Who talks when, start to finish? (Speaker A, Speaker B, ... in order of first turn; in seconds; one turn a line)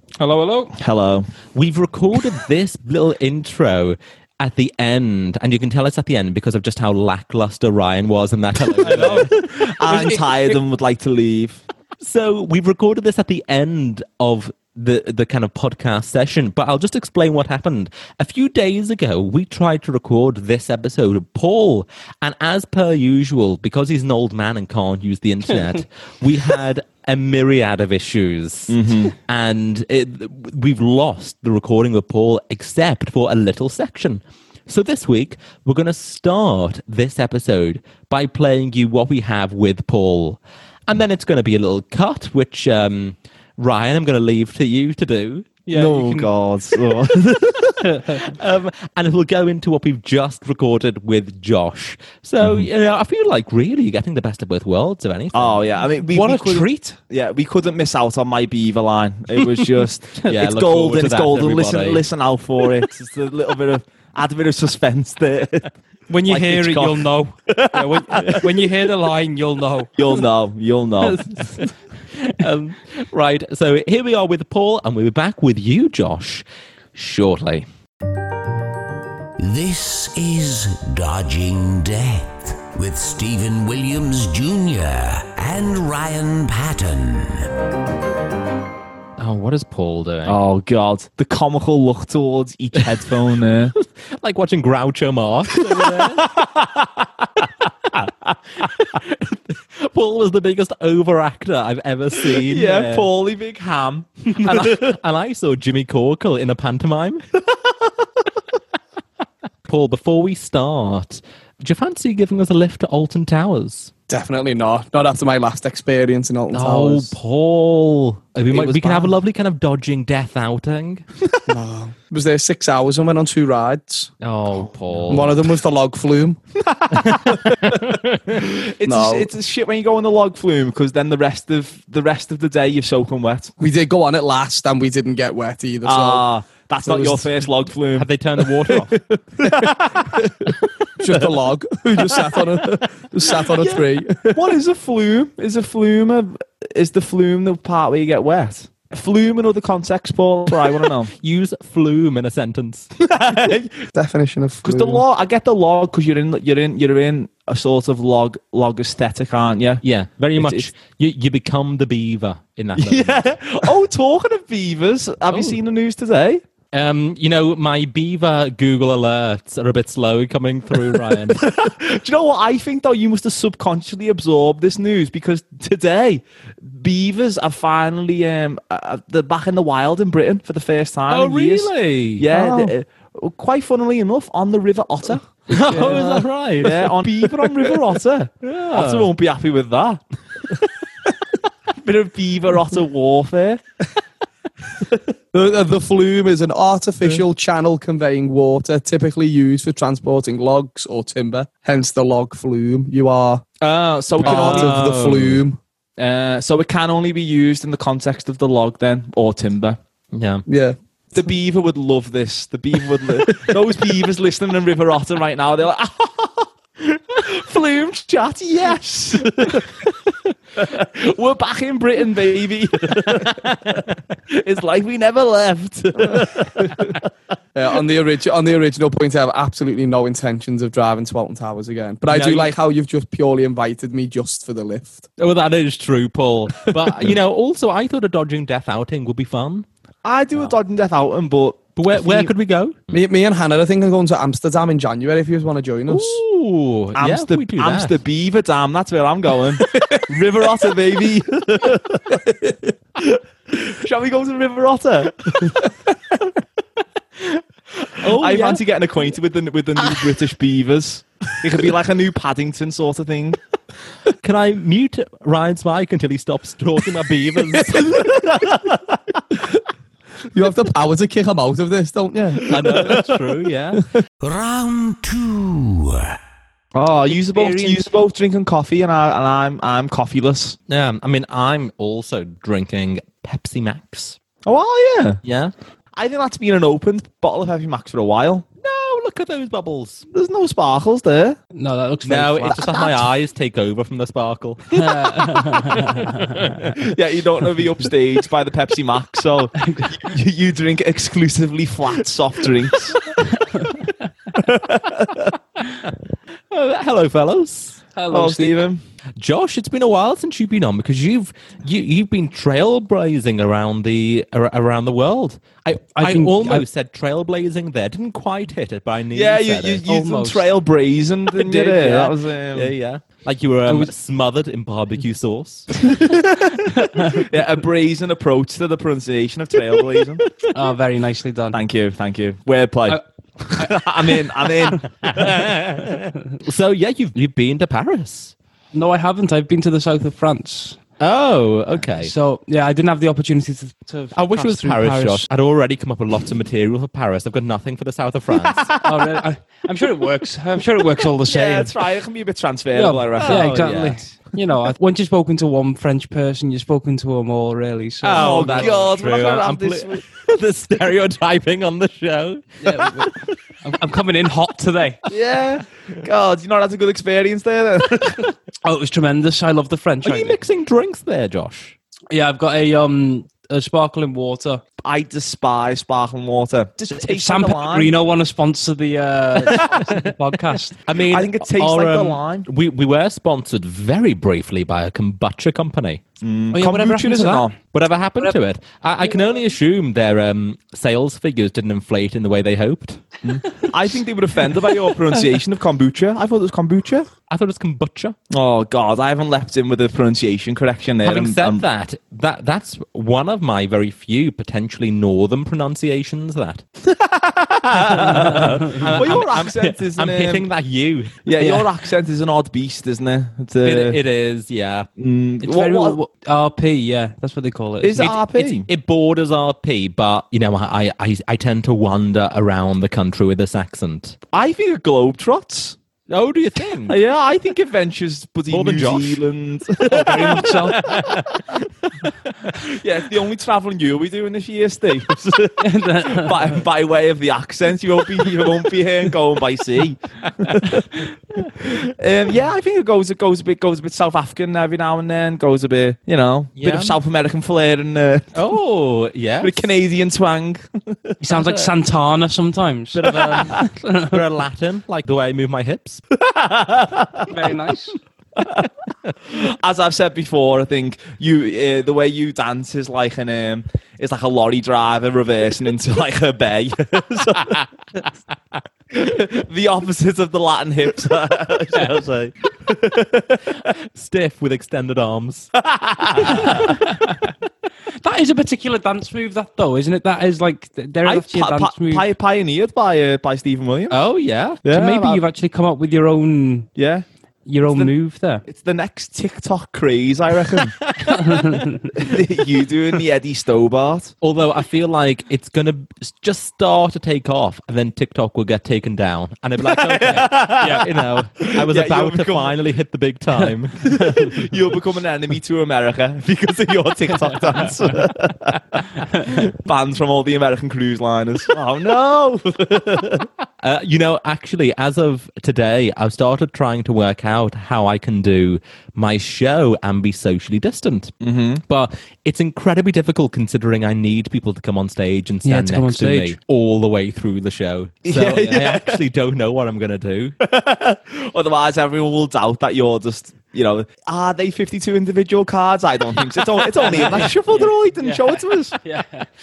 Speaker A: 0.2-0.7
Speaker B: 0.8-1.3
Speaker C: 1.5-10.5
Speaker A: 8.8-9.3
Speaker B: 8.8-11.6
Speaker A: 9.9-10.2
Speaker C: 12.0-45.6
Speaker B: 28.7-29.1
Speaker A: 45.7-46.3
Speaker B: 45.7-47.8
Speaker A: 47.9-48.2
Speaker C: 48.1-55.6
Speaker B: 55.3-65.7
Speaker A: 56.0-57.0
Speaker C: 60.3-62.0
Speaker A: 66.1-70.1
Speaker B: 66.3-68.5
Speaker B: 70.0-71.2
Speaker C: 71.1-77.7
Speaker D: 79.4-87.5
Speaker C: 89.2-90.4
Speaker B: 90.3-93.7
Speaker C: 93.7-96.4
Speaker B: 95.8-96.8
Speaker C: 98.6-103.1
Speaker B: 102.3-104.9
Speaker C: 104.4-107.2
Speaker C: 109.7-113.9
Speaker E: 114.1-117.1
Speaker C: 116.5-121.0
Speaker B: 118.5-119.1
Speaker E: 121.5-124.1
Speaker C: 124.2-125.4
Speaker E: 125.1-126.4
Speaker C: 126.9-128.4
Speaker B: 127.3-127.8
Speaker B: 128.3-133.5
Speaker E: 128.8-129.3
Speaker E: 133.6-136.3
Speaker B: 135.8-138.1
Speaker E: 136.8-137.3
Speaker C: 137.9-139.0
Speaker B: 139.4-140.3
Speaker E: 139.4-140.1
Speaker E: 141.0-144.5
Speaker B: 142.0-142.4
Speaker B: 143.3-151.1
Speaker C: 151.1-152.9
Speaker B: 153.1-153.7
Speaker E: 153.9-155.0
Speaker B: 154.6-159.8
Speaker C: 159.8-163.3
Speaker B: 160.4-160.7
Speaker B: 162.8-166.4
Speaker C: 165.3-165.6
Speaker C: 166.7-171.4
Speaker B: 171.4-190.0
Speaker C: 181.1-182.7
Speaker C: 185.5-186.9
Speaker C: 188.4-189.1
Speaker B: 191.7-193.6
Speaker E: 195.3-203.4
Speaker B: 203.6-204.7
Speaker E: 204.2-205.6
Speaker C: 204.2-205.4
Speaker B: 206.0-209.8
Speaker C: 210.1-210.4
Speaker E: 210.5-210.8
Speaker B: 211.1-227.1
Speaker C: 222.9-223.9
Speaker E: 227.6-235.1
Speaker C: 232.1-232.5
Speaker C: 235.2-239.7
Speaker E: 236.9-237.1
Speaker B: 240.0-242.3
Speaker C: 241.8-242.8
Speaker E: 242.9-246.2
Speaker C: 245.9-248.0
Speaker B: 247.0-252.3
Speaker B: 253.0-255.7
Speaker B: 257.2-263.4
Speaker C: 258.0-258.6
Speaker C: 264.2-268.0
Speaker B: 267.9-268.8
Speaker E: 270.3-273.1
Speaker C: 272.5-273.8
Speaker D: 274.2-276.2
Speaker B: 276.7-280.6
Speaker A: 277.1-277.9
Speaker C: 280.7-284.2
Speaker B: 284.4-285.2
Speaker C: 285.2-285.5
Speaker B: 286.0-288.5
Speaker C: 288.6-290.1
Speaker B: 290.1-291.4
Speaker A: 291.6-292.9
Speaker C: 292.1-294.9
Speaker A: 294.7-296.4
Speaker C: 296.3-296.6
Speaker B: 296.6-303.2
Speaker A: 299.6-299.9
Speaker B: 304.4-305.3
Speaker C: 306.5-307.8
Speaker A: 307.9-308.7
Speaker B: 308.1-308.8
Speaker C: 309.2-319.8
Speaker A: 316.0-316.6
Speaker B: 319.1-322.7
Speaker A: 319.9-320.4
Speaker A: 321.3-322.2
Speaker C: 322.5-325.7
Speaker B: 326.0-330.2
Speaker A: 330.5-331.6
Speaker B: 331.5-333.0
Speaker B: 333.5-335.4
Speaker A: 333.6-334.8
Speaker C: 335.0-338.3
Speaker A: 338.7-340.8
Speaker C: 341.0-342.1
Speaker A: 341.9-345.2
Speaker C: 344.1-348.7
Speaker B: 348.6-349.0
Speaker A: 348.8-351.8
Speaker B: 351.2-353.5
Speaker A: 352.7-358.8
Speaker C: 353.2-354.0
Speaker C: 358.0-363.4
Speaker B: 358.1-360.0
Speaker A: 362.6-365.0
Speaker B: 365.1-368.3
Speaker A: 368.6-370.4
Speaker C: 370.0-371.8
Speaker A: 372.1-374.6
Speaker B: 374.8-377.9
Speaker A: 377.0-380.8
Speaker C: 379.4-380.1
Speaker C: 380.8-386.0
Speaker B: 381.1-382.5
Speaker B: 386.2-387.6
Speaker A: 386.5-387.5
Speaker C: 387.7-393.1
Speaker B: 393.2-397.1
Speaker C: 397.3-398.2
Speaker B: 398.3-401.6
Speaker C: 401.0-406.6
Speaker B: 406.9-410.5
Speaker C: 407.7-411.6
Speaker A: 408.9-409.2
Speaker B: 411.2-414.0
Speaker C: 413.6-414.9
Speaker B: 415.0-416.0
Speaker A: 415.4-418.2
Speaker B: 417.8-418.7
Speaker C: 418.0-424.2
Speaker B: 424.3-425.8
Speaker C: 426.1-427.0
Speaker B: 426.9-431.0
Speaker C: 428.5-429.2
Speaker C: 429.9-432.6
Speaker A: 429.9-430.8
Speaker B: 432.6-448.3
Speaker A: 435.6-436.6
Speaker C: 446.6-447.0
Speaker C: 448.3-449.7
Speaker B: 449.4-451.2
Speaker A: 451.2-454.1
Speaker C: 451.3-451.7
Speaker C: 452.9-456.0
Speaker B: 453.2-453.5
Speaker B: 456.2-457.3
Speaker A: 457.3-458.0
Speaker B: 458.4-458.7
Speaker B: 459.3-468.0
Speaker B: 468.9-473.4
Speaker C: 473.7-475.5
Speaker B: 475.6-476.8
Speaker C: 476.2-476.7
Speaker A: 476.3-477.0
Speaker A: 478.0-482.1
Speaker B: 481.1-484.0
Speaker C: 483.9-484.6
Speaker B: 484.6-485.2
Speaker A: 484.7-486.7
Speaker B: 486.8-487.1
Speaker A: 487.5-488.4
Speaker B: 488.5-490.8
Speaker C: 490.9-491.2
Speaker A: 491.2-491.9
Speaker B: 491.9-494.1
Speaker C: 494.2-503.9
Speaker B: 499.6-502.6
Speaker B: 503.8-513.3
Speaker C: 513.6-521.1
Speaker B: 521.2-521.6
Speaker C: 521.7-530.4
Speaker A: 525.5-526.4
Speaker B: 528.0-529.0
Speaker B: 530.4-538.8
Speaker A: 536.8-539.3